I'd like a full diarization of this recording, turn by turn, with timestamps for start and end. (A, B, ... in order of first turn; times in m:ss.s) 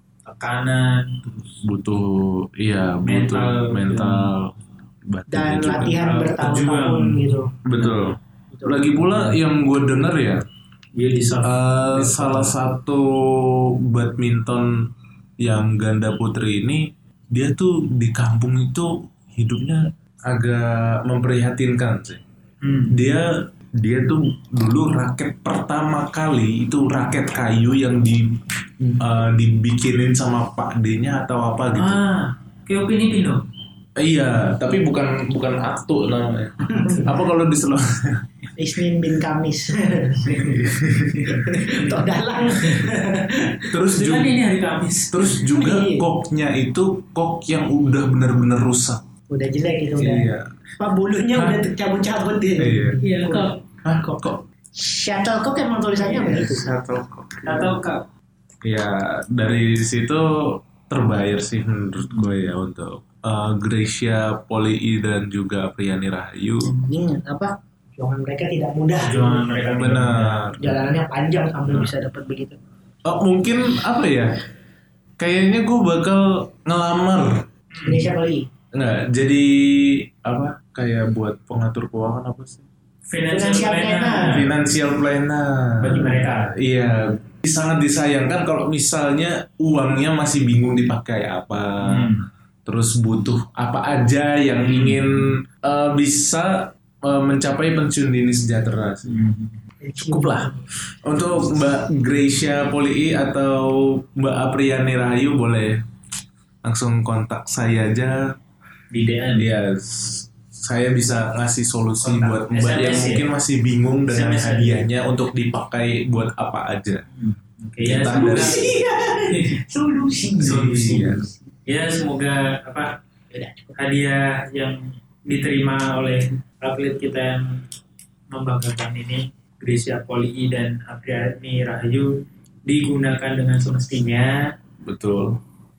0:00.2-0:01.6 A
0:01.6-0:04.5 B
0:03.0-0:04.3 A
0:05.1-0:06.0 B
0:05.3-0:07.5 C
0:06.0-0:08.1 A
0:07.6-0:10.4 B
0:08.6-0:08.9 C
0:11.0-0:12.6 A
0:11.4-0:14.7 B
0:15.4-0:22.2 B
0:22.6-0:23.0 A
0:22.9-0:23.3 B
0:23.8-0:28.4 B
0:29.0-0:32.0 B
0:31.8-0:33.4 A
0:34.0-0:36.5 B
0:36.7-0:37.1 C
0:37.0-0:38.2 B
0:38.6-0:40.7 C
0:40.3-0:41.9 A
0:41.3-0:43.7 C
0:43.7-0:44.2 B
0:43.9-0:45.4 A
0:45.1-0:49.0 B
0:45.4-0:46.1 C
0:49.3-0:53.5 C
0:50.0-0:50.5 B
0:52.6-0:53.0 B
0:53.0-0:53.6 A
0:53.8-0:54.3 B
0:54.7-0:56.8 C
0:56.0-0:56.4 A
0:56.6-0:57.4 B
0:57.4-0:58.0 A
0:58.6-1:06.7 B
1:02.0-1:02.2 A
1:06.6-1:09.4 C
1:09.0-1:10.5 A
1:09.7-1:10.6 B
1:10.6-1:12.6 C
1:13.0-1:14.3 B
1:15.2-1:17.4 B
1:17.7-1:18.0 A
1:17.8-1:18.5 C
1:18.7-1:22.6 B
1:23.1-1:24.5 A
1:23.3-1:24.4 C
1:24.3-1:25.8 B
1:25.8-1:26.5 A
1:26.6-1:31.9 B
1:31.8-1:32.2 A
1:32.6-1:39.0 B
1:34.6-1:35.1 A
1:39.0-1:39.6 A
1:39.8-1:40.6 C
1:40.2-1:40.5 B
1:41.0-1:45.8 B
1:46.6-1:48.3 B
1:48.9-1:49.5 A
1:49.4-1:57.0 B
1:52.0-1:53.3 A
1:54.1-1:54.9 A
1:57.2-1:58.6 A
1:57.8-1:58.5 B
1:58.1-2:01.0 C
2:00.4-2:02.9 A
2:00.4-2:01.2 B
2:03.3-2:03.7 C
2:03.8-2:07.6 A
2:08.3-2:14.5 A
2:14.8-2:15.4 B